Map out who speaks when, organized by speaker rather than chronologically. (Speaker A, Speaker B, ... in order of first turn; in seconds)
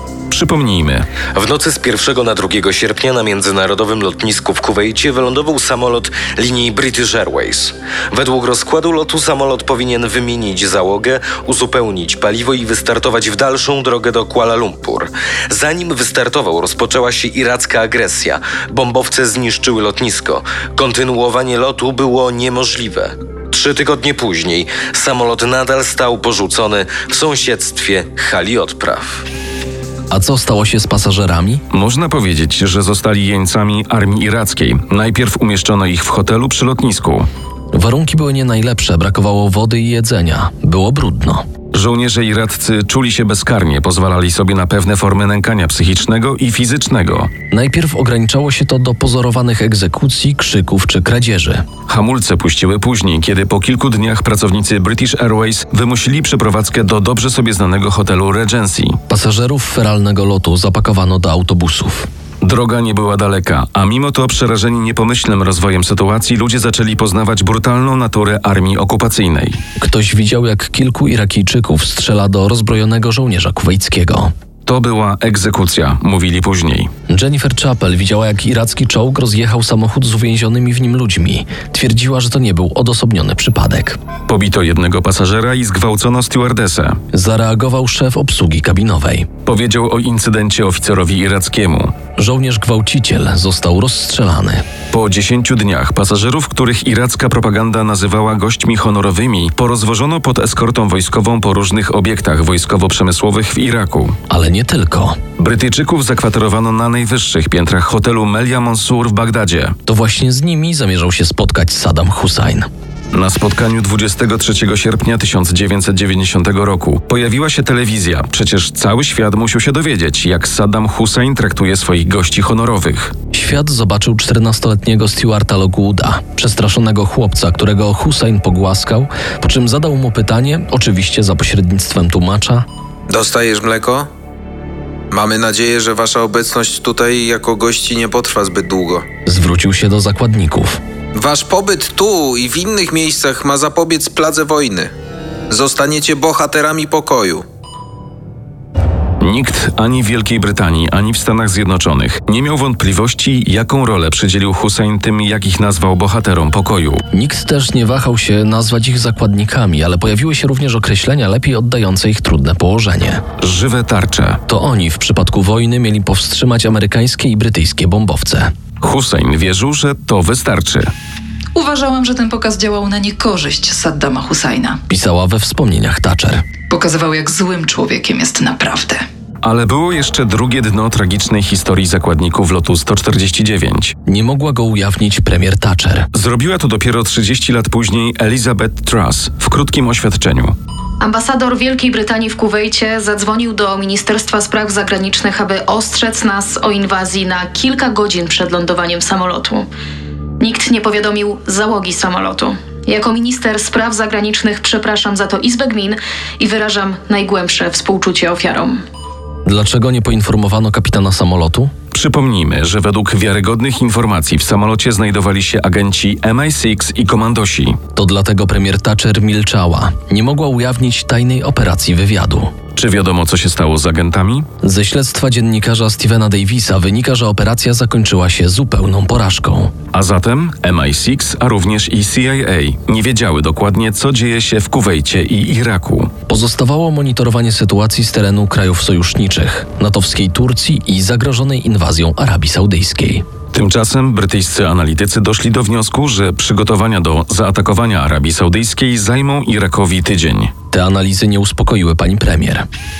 Speaker A: 0.3-1.1, 31.7-37.3, 41.7-47.3, 51.9-59.0, 62.4-69.6, 74.7-76.9, 84.3-87.0, 89.5-91.9, 94.9-104.2, 105.4-109.7, 113.1-123.1, 149.2-157.0, 163.4-164.4, 168.8-170.9, 179.4-183.9, 186.1-190.5, 211.9-217.8, 222.8-224.5, 229.9-236.1, 243.5-250.5
Speaker B: 1.3-29.2
Speaker C: 30.1-31.6, 37.7-41.4, 47.5-51.7, 59.1-62.1, 69.8-74.3, 77.1-84.0, 87.1-89.3, 92.2-94.6, 104.3-105.2, 109.9-112.7, 123.3-132.7, 139.3-140.8, 157.1-163.2, 164.5-168.5, 174.9-176.4, 184.1-186.1, 209.4-211.7, 217.9-222.5, 224.6-229.7, 236.3-243.2, 250.7-252.6
Speaker D: 133.1-134.1, 135.1-139.1, 141.1-144.9, 145.5-147.4
Speaker E: 171.5-174.8, 176.7-179.0
Speaker F: 191.0-199.7, 200.4-208.8